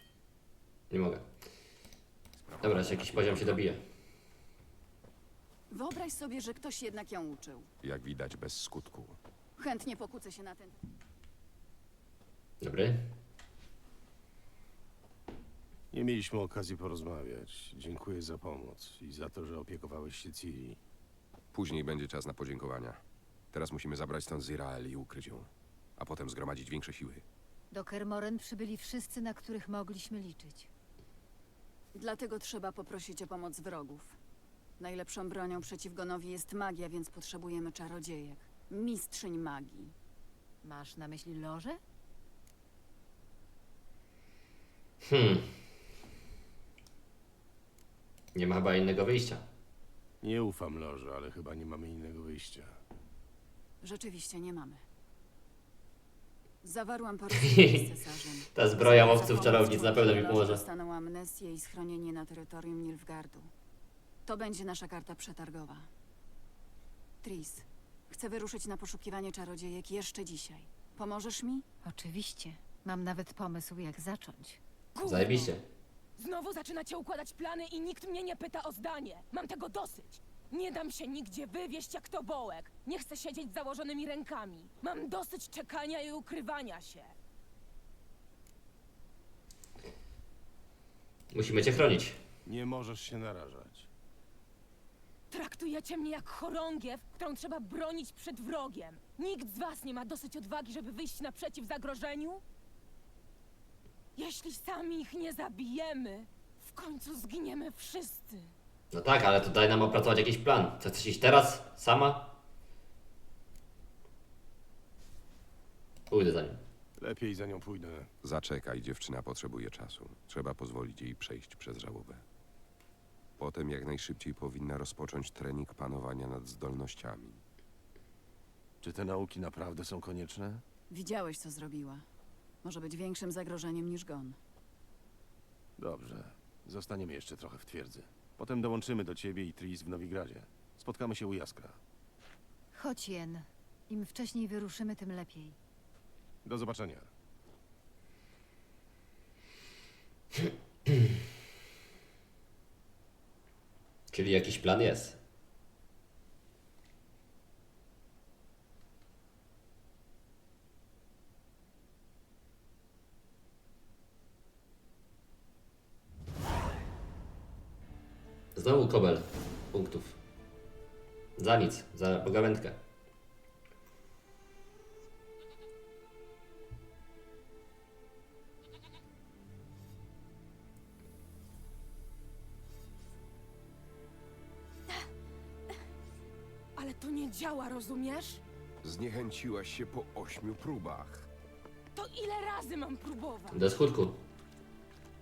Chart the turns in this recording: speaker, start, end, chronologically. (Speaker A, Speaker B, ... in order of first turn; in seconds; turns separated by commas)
Speaker A: 0.9-1.2, Speaker B: 2.4-3.7, Speaker A: 2.6-3.8, Speaker C: 5.7-7.7, Speaker B: 7.8-9.2, Speaker C: 9.6-10.8, Speaker A: 12.6-13.1, Speaker D: 15.9-20.8, Speaker B: 21.5-23.0, Speaker B: 23.5-27.2, Speaker E: 27.7-30.7, Speaker C: 31.9-34.2, Speaker C: 34.8-40.0, Speaker E: 40.6-41.8, Speaker A: 45.0-45.5, Speaker A: 48.4-49.5, Speaker D: 50.2-52.8, Speaker C: 53.8-54.8, Speaker C: 56.6-63.5, Speaker A: 58.5-60.6, Speaker C: 64.3-65.9, Speaker C: 67.2-71.7, Speaker E: 71.8-74.6, Speaker F: 75.0-75.6, Speaker A: 75.0-75.6, Speaker F: 76.2-87.2, Speaker A: 91.3-92.2, Speaker D: 92.5-93.9, Speaker F: 95.3-102.4, Speaker F: 104.2-108.5, Speaker A: 108.9-112.3, Speaker A: 116.1-116.6, Speaker D: 117.0-118.1, Speaker B: 118.2-122.2, Speaker B: 123.4-127.4, Speaker D: 128.8-130.6, Speaker C: 130.9-132.0, Speaker C: 132.6-134.4, Speaker D: 135.8-141.8, Speaker E: 142.7-145.6, Speaker D: 146.4-147.1, Speaker A: 154.1-155.2, Speaker A: 168.6-170.2, Speaker A: 171.4-172.8, Speaker F: 186.8-188.4, Speaker B: 188.8-191.3, Speaker F: 191.9-193.6, Speaker A: 193.5-194.2